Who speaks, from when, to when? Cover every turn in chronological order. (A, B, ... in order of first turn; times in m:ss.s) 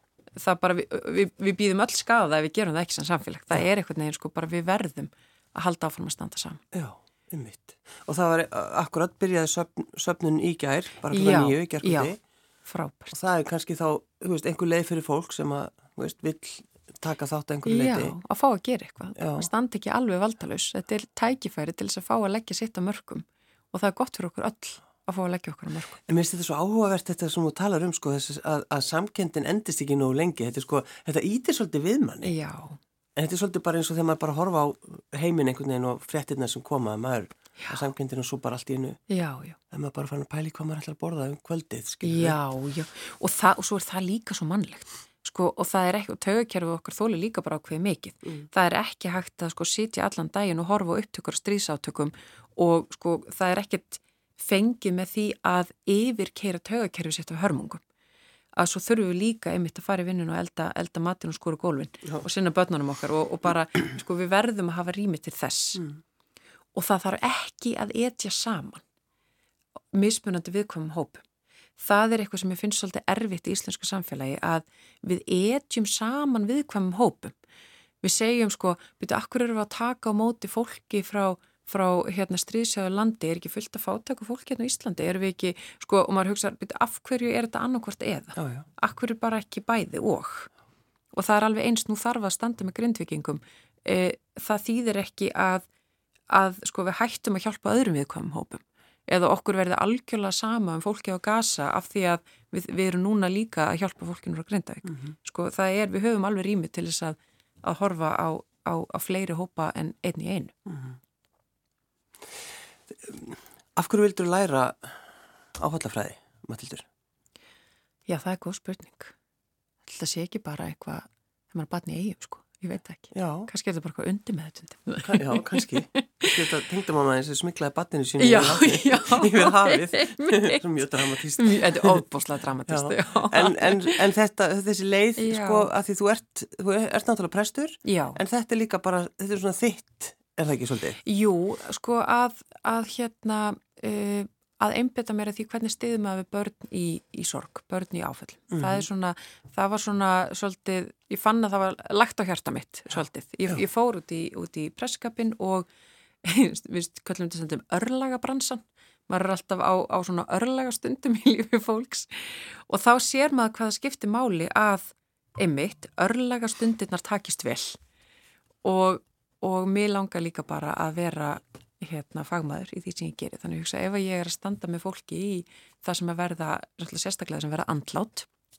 0:00.4-0:06.6 A
0:06.7-0:12.2 B
0:11.1-0:12.1 A
0:12.7-0:13.2 A
0:13.1-0:18.2 B
0:17.7-0:26.0 A
0:19.2-0:19.5 B
0:26.1-0:32.3 B
0:32.2-0:32.8 A
0:33.2-0:39.0 B
0:39.1-0:39.6 A
0:39.7-0:42.4 B
0:42.0-0:57.8 A
0:58.6-1:05.8 A
1:06.8-1:08.8 A
1:09.9-1:11.2 A
1:11.8-1:17.3 A
1:18.0-1:30.5 A
1:28.4-1:28.7 B
1:31.1-1:35.7 A
1:36.3-1:50.5 A
1:50.7-1:51.0 B
1:52.9-1:55.0 B
1:55.6-1:56.9 B
1:58.1-1:59.1 A
1:59.9-2:06.4 A
2:03.1-2:03.5 B
2:05.0-2:12.1 B
2:08.2-2:10.6 A
2:11.3-2:14.0 A
2:12.7-2:21.0 B
2:15.2-2:15.7 A
2:17.8-2:18.2 A
2:21.0-2:35.7 A
2:28.5-2:28.9 B
2:36.2-2:47.8 A
2:48.6-2:58.3 A